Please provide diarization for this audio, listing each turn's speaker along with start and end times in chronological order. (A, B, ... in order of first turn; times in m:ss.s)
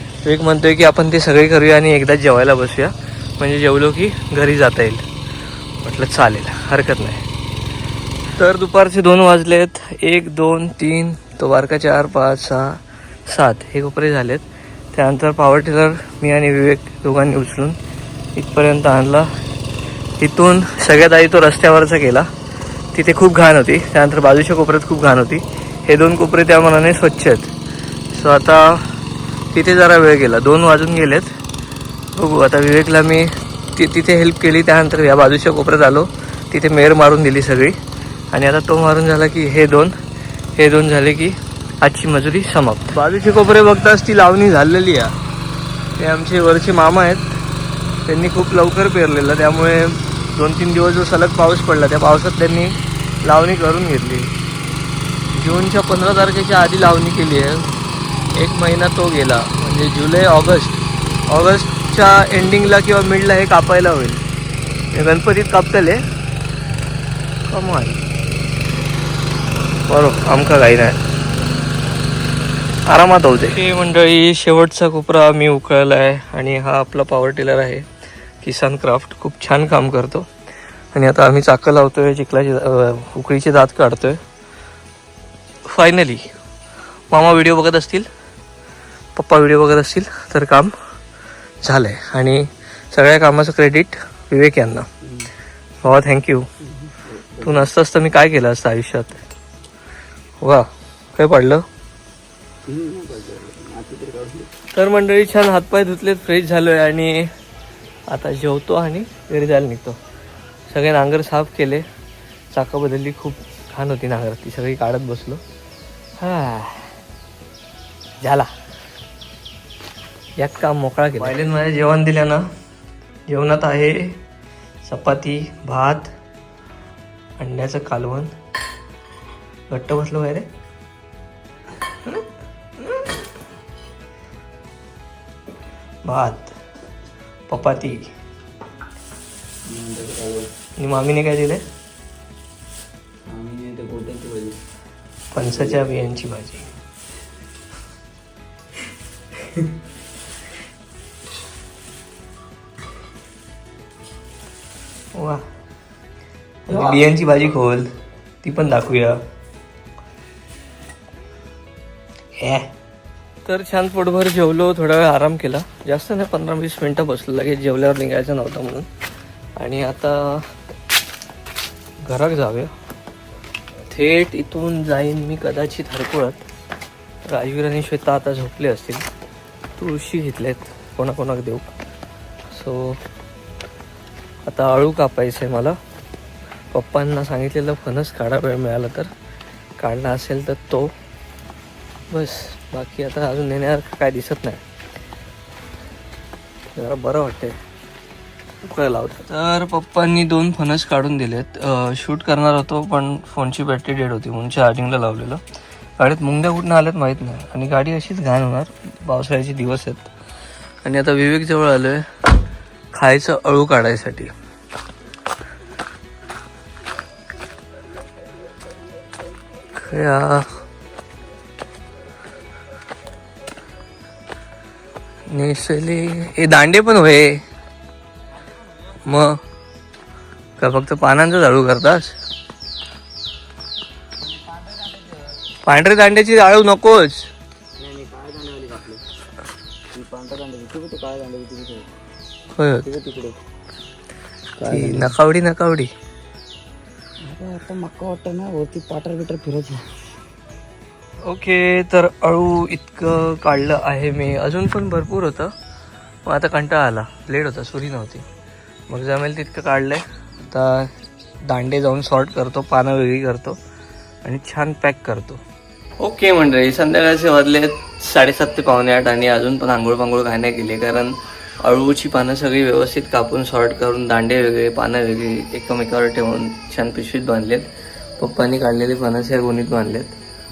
0:00.2-0:05.0 A
0:05.8-0:07.2 A
0:08.4-0:17.8 A
0:18.4-0:19.3 A
0:20.2-0:22.3 A
0:22.9-0:27.5 A
0:28.1-0:28.9 A
0:29.5-0:31.3 A
0:32.2-0:37.8 A
0:38.3-0:39.9 A
0:40.6-0:45.2 A
0:46.0-0:47.4 A
0:48.1-0:54.3 A
0:55.3-0:57.7 A
0:58.4-1:04.2 A
1:04.9-1:06.0 A
1:07.5-1:08.0 A
1:09.9-1:11.0 A
1:12.9-1:17.9 A
1:18.4-1:20.3 A
1:20.9-1:24.2 A
1:25.6-1:26.3 A
1:27.1-1:28.1 A
1:29.2-1:30.7 A
1:31.6-1:34.9 A
1:35.0-1:35.3 B
1:35.8-1:36.5 A
1:36.7-1:37.7 B
1:37.4-1:39.2 A
1:40.4-1:41.6 A
1:42.7-1:44.5 B
1:44.7-1:47.3 A
1:48.1-1:50.0 A
1:50.7-1:51.8 A
1:52.5-1:55.4 A
1:56.2-1:56.9 A
1:58.2-1:58.5 A
2:00.4-2:02.5 A
2:03.3-2:04.2 A
2:04.8-2:06.1 A
2:07.4-2:08.3 A
2:09.7-2:10.5 A
2:16.0-2:16.5 A
2:17.5-2:18.1 A
2:19.7-2:20.5 B
2:20.8-2:21.6 A
2:23.3-2:24.6 B
2:25.3-2:26.7 A
2:25.4-2:25.8 B
2:35.1-2:35.4 A
2:36.7-2:37.9 A
2:38.4-2:39.2 A
2:42.4-2:42.7 A
2:43.4-2:48.9 A
2:49.6-2:50.5 A
2:52.0-2:52.7 A
2:53.9-2:56.4 A
2:57.3-2:59.0 A
2:59.8-3:01.7 A
3:02.5-3:03.0 A
3:04.5-3:05.8 A
3:06.7-3:09.1 A
3:09.8-3:10.9 A
3:12.1-3:14.6 A
3:16.8-3:17.6 A
3:18.6-3:25.4 A
3:26.0-3:30.1 A
3:30.8-3:32.1 A
3:32.9-3:34.3 A
3:39.8-3:40.6 A
3:45.3-3:47.4 A
3:49.0-3:49.4 A
3:50.6-3:52.2 A
3:54.3-3:55.3 B
3:55.6-3:57.3 A
3:57.8-3:59.0 B
3:59.9-4:01.9 B
4:02.6-4:02.9 A
4:02.8-4:03.4 B
4:04.6-4:05.2 B
4:04.7-4:05.9 A
4:07.2-4:09.8 B
4:11.3-4:15.5 A
4:16.3-4:18.2 A
4:18.9-4:20.9 A
4:21.5-4:23.6 A
4:24.2-4:25.4 A
4:26.0-4:40.2 A